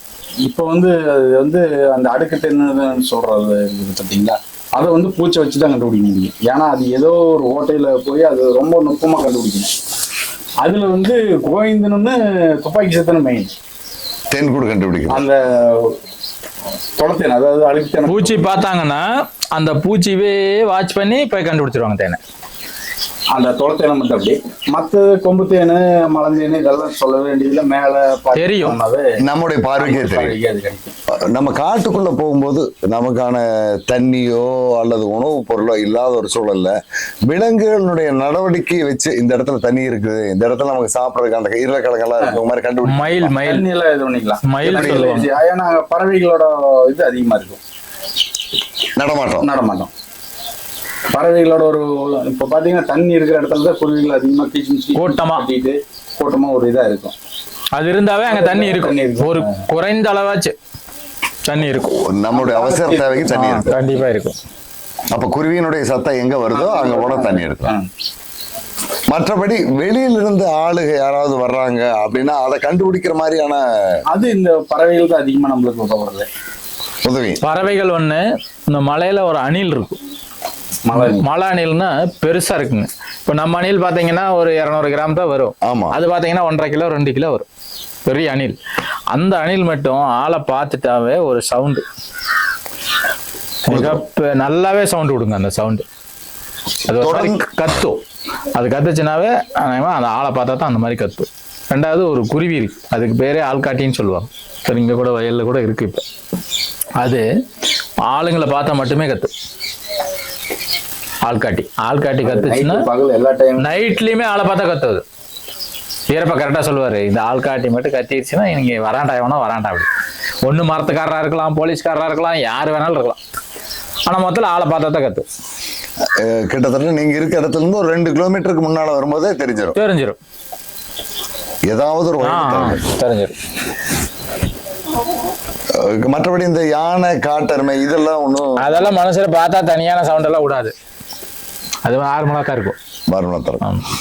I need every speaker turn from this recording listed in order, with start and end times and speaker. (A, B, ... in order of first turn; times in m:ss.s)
0:00.4-0:09.7 A
0:10.6-0:13.5 A
0:14.3-0:15.2 B
0:15.1-0:16.0 A
0:17.0-0:18.5 A
0:18.1-0:22.2 C
0:23.3-0:29.2 A
0:28.3-0:28.8 C
0:29.2-0:30.4 B
0:29.8-0:30.9 A
0:31.3-0:36.8 B
0:37.3-0:43.3 B
0:42.8-0:43.6 C
0:43.4-0:47.6 A
0:44.4-0:45.3 C
0:49.0-0:49.5 B
0:49.4-0:49.9 A
0:51.1-0:57.2 A
0:55.0-0:55.5 C
0:57.8-1:00.6 C
0:58.3-0:59.6 A
1:01.4-1:01.9 C
1:01.8-1:03.8 B
1:02.3-1:03.4 A
1:03.3-1:04.4 C
1:05.1-1:07.7 B
1:06.5-1:07.9 A
1:09.1-1:13.6 B
1:14.1-1:16.3 A
1:17.0-1:17.4 B
1:17.4-1:20.0 C
1:20.8-1:21.3 A
1:20.9-1:27.5 C
1:25.6-1:26.0 B
1:28.1-1:28.6 C
1:29.1-1:31.8 C
1:33.7-1:35.8 C
1:33.7-1:34.0 B
1:36.9-1:37.5 B
1:36.9-1:38.0 C
1:38.5-1:46.0 C
1:47.0-1:47.3 C
1:48.1-1:49.3 C
1:51.2-1:52.8 C
1:52.2-1:53.7 A
1:53.6-1:55.0 C
1:56.1-1:59.9 C
2:00.4-2:03.2 C
2:04.1-2:05.2 C
2:06.2-2:09.8 B
2:09.8-2:10.2 C
2:11.7-2:12.8 B
2:12.2-2:13.4 C
2:15.7-2:18.9 B
2:18.6-2:20.7 C
2:21.8-2:22.8 C
2:23.1-2:23.6 B